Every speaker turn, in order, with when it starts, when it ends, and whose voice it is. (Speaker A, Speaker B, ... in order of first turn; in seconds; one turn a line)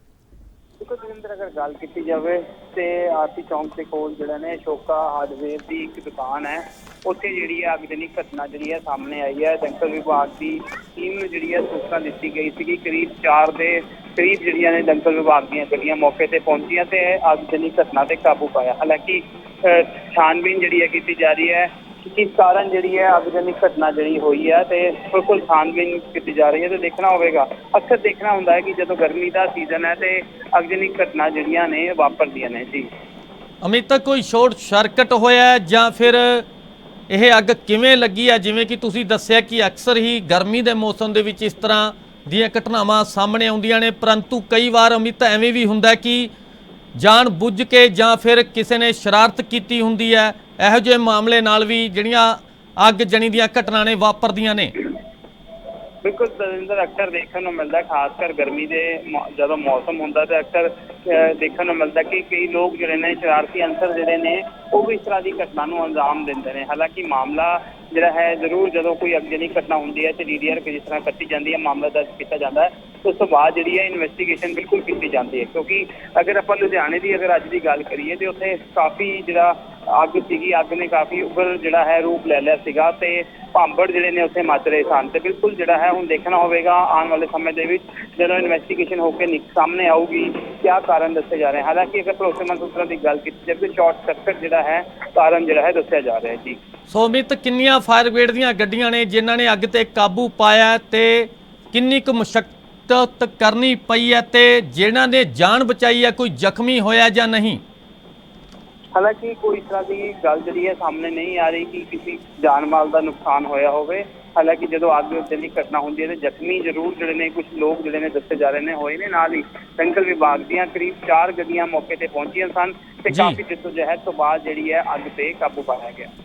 Speaker A: 0.8-32.9
Speaker B: 33.6-36.5
Speaker B: 37.1-46.3
Speaker B: 47.0-54.7
Speaker A: 56.0-96.6
Speaker B: 96.9-107.6
Speaker A: 108.9-126.1
Speaker B: 123.1-123.4